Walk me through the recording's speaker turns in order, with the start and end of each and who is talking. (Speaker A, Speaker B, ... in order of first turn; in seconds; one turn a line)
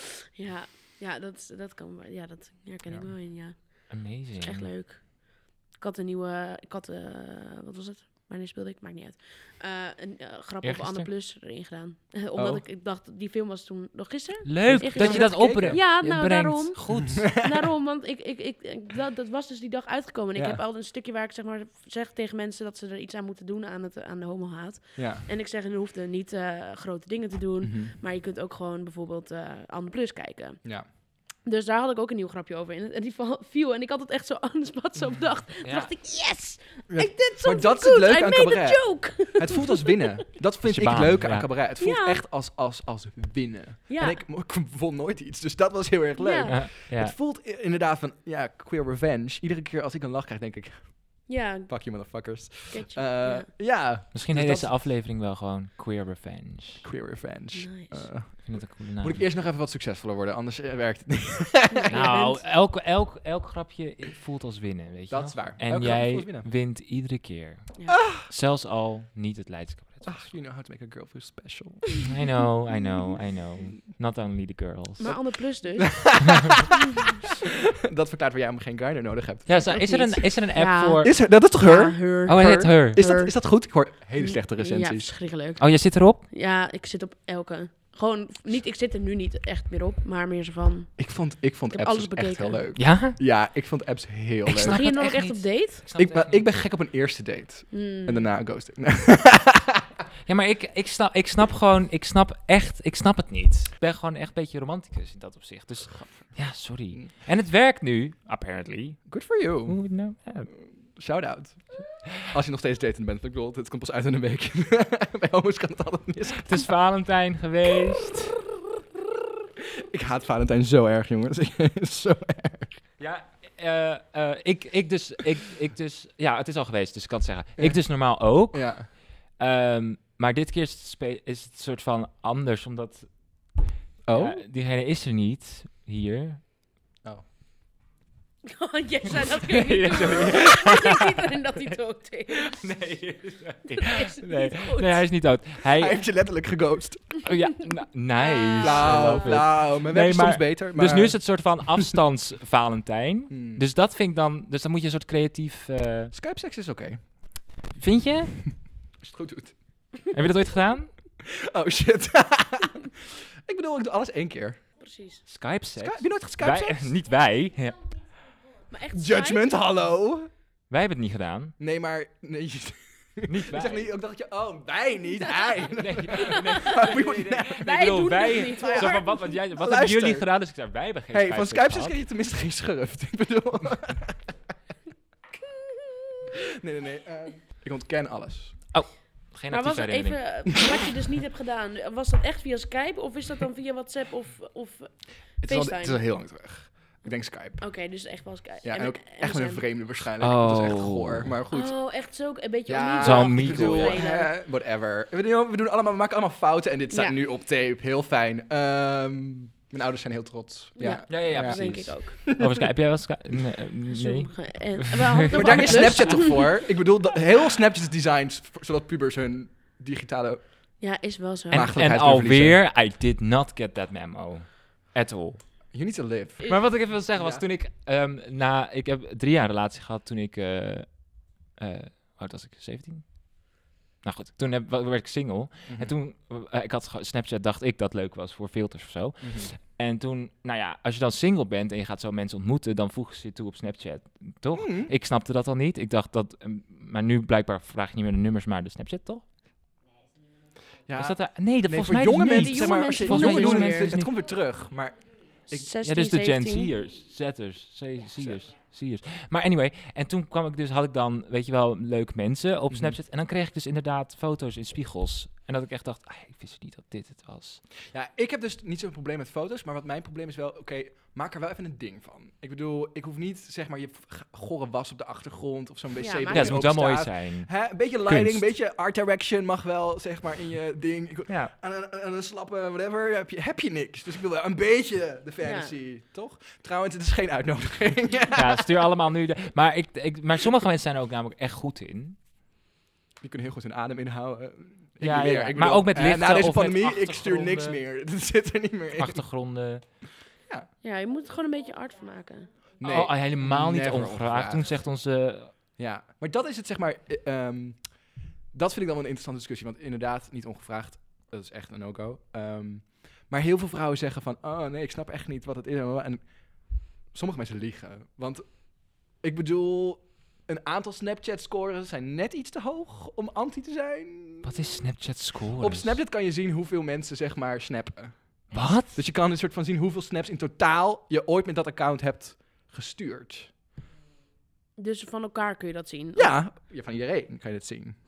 Speaker A: 0.4-30.6
Speaker B: 2.9-3.1
Speaker C: 3.9-4.7
Speaker C: 10.6-11.1
Speaker B: 12.3-12.6
Speaker C: 14.4-17.3
Speaker B: 14.7-15.8
Speaker B: 16.9-17.7
Speaker B: 20.3-20.6
Speaker B: 24.9-25.2
Speaker B: 27.6-27.9
Speaker A: 31.4-40.1
Speaker C: 35.6-35.9
Speaker B: 36.9-54.7
Speaker C: 40.6-41.5
Speaker A: 41.8-42.2
Speaker A: 43.9-44.2
Speaker A: 46.2-46.6
Speaker C: 46.5-47.1
Speaker A: 51.3-53.5
Speaker C: 54.1-56.8
Speaker B: 56.8-61.9
Speaker A: 57.5-58.1
Speaker C: 58.4-59.2
Speaker A: 61.7-62.4
Speaker C: 61.9-70.3
Speaker B: 65.1-66.5
Speaker B: 67.9-68.2
Speaker B: 70.0-72.1
Speaker C: 72.0-75.2
Speaker A: 75.0-76.5
Speaker B: 75.7-76.8
Speaker B: 77.4-79.9
Speaker C: 79.5-81.1
Speaker A: 79.7-92.6
Speaker B: 81.0-85.1
Speaker C: 82.2-83.0
Speaker C: 85.6-86.2
Speaker B: 91.0-94.8
Speaker C: 92.7-93.2
Speaker C: 94.5-96.6
Speaker A: 94.6-95.8
Speaker B: 95.9-99.9
Speaker A: 97.7-98.3
Speaker C: 100.2-110.5
Speaker B: 105.9-107.1
Speaker B: 109.1-109.8
Speaker B: 110.5-116.6
Speaker C: 116.4-118.4
Speaker B: 119.8-122.8
Speaker C: 123.0-136.4
Speaker B: 127.6-128.9
Speaker B: 134.1-134.4
Speaker A: 138.4-142.8
Speaker C: 139.4-141.1
Speaker C: 142.3-146.0
Speaker A: 143.8-145.0
Speaker B: 145.8-147.2
Speaker C: 147.2-156.1
Speaker A: 148.2-149.3
Speaker B: 148.6-151.9
Speaker B: 153.3-153.6
Speaker B: 156.1-157.0
Speaker C: 157.7-158.4
Speaker B: 159.0-159.6
Speaker C: 160.1-160.9
Speaker B: 161.2-164.6
Speaker A: 164.8-165.2
Speaker C: 165.2-167.8
Speaker B: 165.8-167.0
Speaker A: 168.7-169.4
Speaker B: 168.9-170.3
Speaker C: 170.7-171.6
Speaker B: 171.6-177.7
Speaker C: 173.3-173.9
Speaker C: 175.7-181.9
Speaker A: 176.7-177.0
Speaker A: 177.5-179.4
Speaker B: 178.6-180.3
Speaker B: 181.1-184.3
Speaker B: 186.5-188.6
Speaker C: 188.7-190.2
Speaker A: 189.5-196.0
Speaker B: 195.4-197.7
Speaker A: 197.6-199.6
Speaker B: 198.6-201.7
Speaker C: 200.2-201.3
Speaker A: 201.5-204.3
Speaker B: 202.7-212.4
Speaker C: 203.0-204.0
Speaker A: 206.9-207.2
Speaker A: 210.8-212.4
Speaker C: 211.1-216.3
Speaker A: 213.9-216.6
Speaker B: 215.3-220.7
Speaker A: 220.8-221.7
Speaker B: 221.5-222.6
Speaker C: 221.6-225.4
Speaker B: 225.7-227.4
Speaker C: 226.4-249.2
Speaker B: 235.7-235.9
Speaker B: 239.2-239.5
Speaker B: 244.5-244.9
Speaker B: 250.9-255.7
Speaker C: 250.9-254.2
Speaker A: 252.3-253.9
Speaker A: 255.5-256.7
Speaker C: 255.8-267.6
Speaker B: 262.7-263.0
Speaker B: 267.9-288.7
Speaker A: 276.0-276.7
Speaker C: 276.3-278.5
Speaker A: 285.4-285.7
Speaker C: 288.3-292.2
Speaker B: 293.2-299.2
Speaker C: 295.0-297.8
Speaker C: 299.0-299.9
Speaker A: 300.8-302.6
Speaker B: 302.8-304.6
Speaker C: 302.8-305.6
Speaker B: 305.8-324.5
Speaker C: 324.4-326.0
Speaker B: 325.6-333.5
Speaker C: 328.5-328.9
Speaker A: 334.8-336.3
Speaker B: 336.1-337.9